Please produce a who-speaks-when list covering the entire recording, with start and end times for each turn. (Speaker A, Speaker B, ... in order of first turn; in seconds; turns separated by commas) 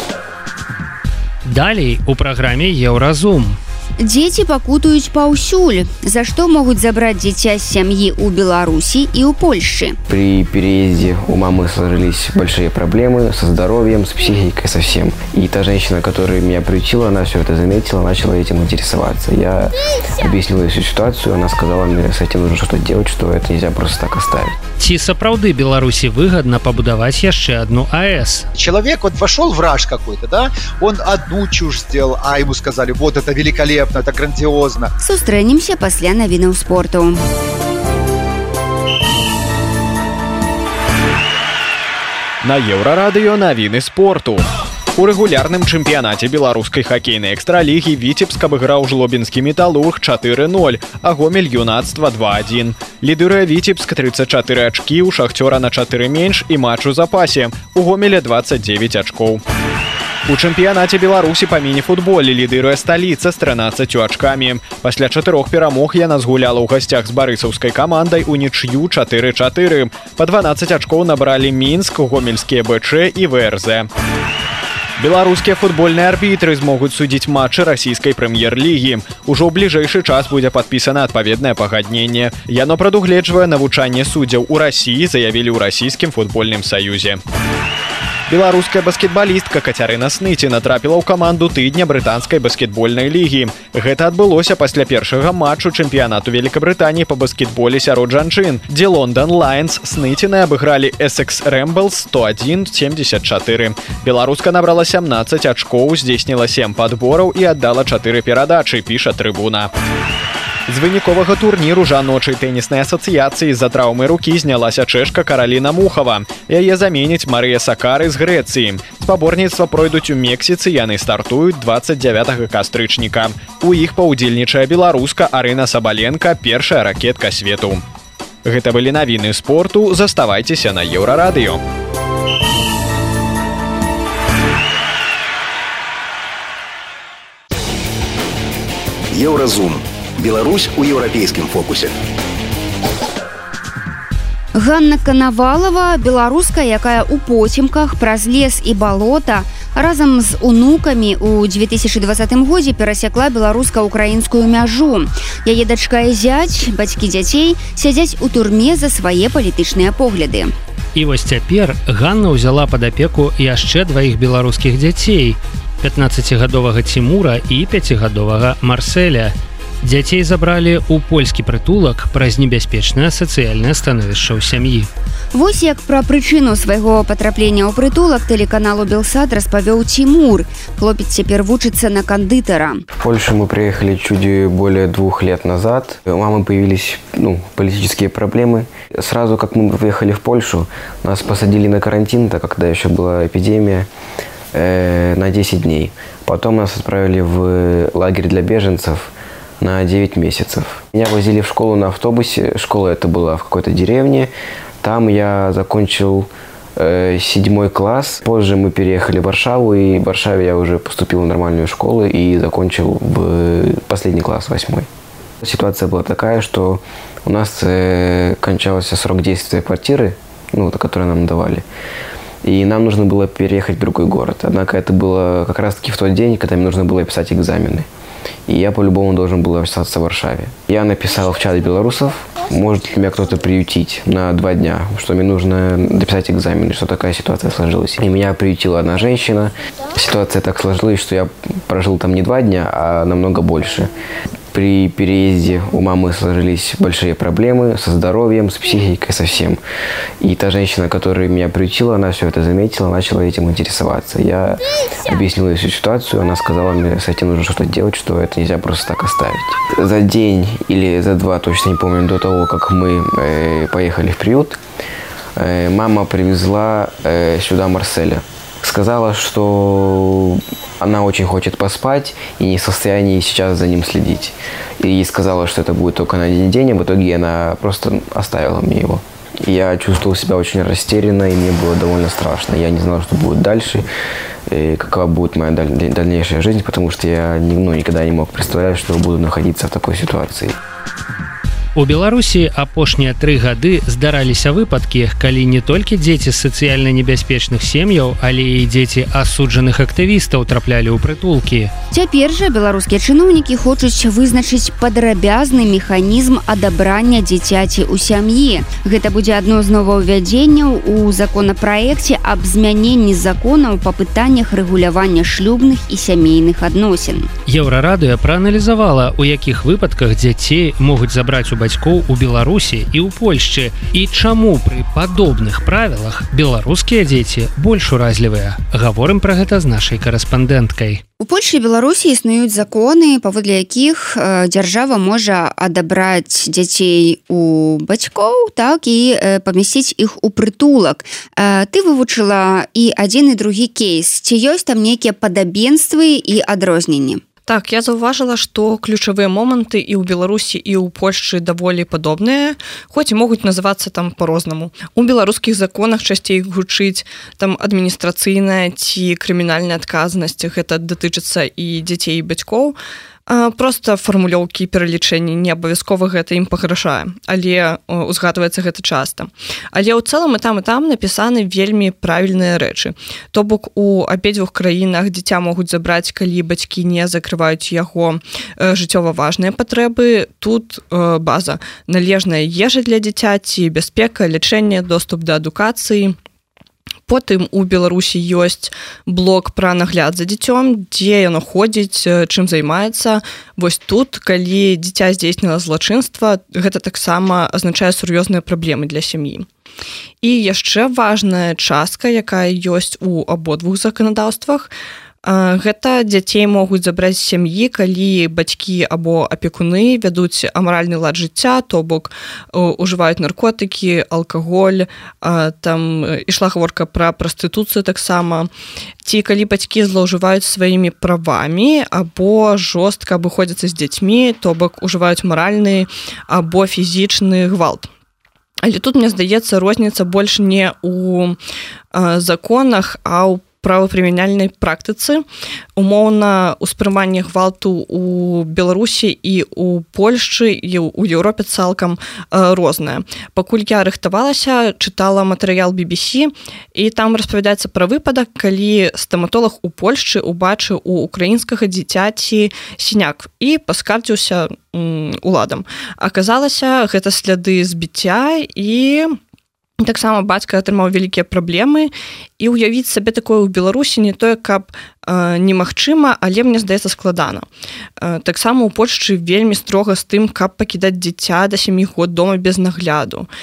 Speaker A: 1.4-3.6, Speaker B: 4.0-10.0, Speaker C: 10.1-24.6, Speaker A: 24.8-28.5, Speaker D: 28.6-34.9, Speaker B: 35.0-37.2, Speaker E: 42.4-44.5, Speaker E: 45.0-59.4, Speaker E: 60.3-73.9, Speaker E: 75.0-87.2, Speaker E: 88.3-109.7, Speaker E: 110.7-127.8, Speaker E: 128.4-131.6, Speaker F: 139.1-142.0, Speaker B: 144.6-160.5, Speaker A: 160.9-174.9, Speaker B: 175.3-182.8, Speaker C: 182.9-193.9, Speaker C: 194.5-204.3, Speaker C: 204.8-214.9, Speaker C: 215.4-221.7, Speaker C: 222.4-227.9, Speaker C: 228.5-243.9, Speaker C: 244.5-249.6, Speaker C: 250.2-264.6, Speaker C: 265.4-283.9, Speaker C: 284.5-290.6, Speaker A: 291.8-301.7, Speaker B: 301.9-317.3, Speaker A: 317.5-331.0, Speaker B: 331.2-347.2, Speaker G: 347.5-362.8, Speaker G: 363.3-386.2, Speaker G: 387.1-399.5, Speaker G: 400.2-404.7, Speaker G: 405.2-418.5, Speaker G: 419.0-427.9, Speaker G: 428.6-431.4, Speaker G: 431.9-435.2, Speaker G: 435.8-459.2, Speaker G: 459.8-467.5, Speaker G: 468.0-473.3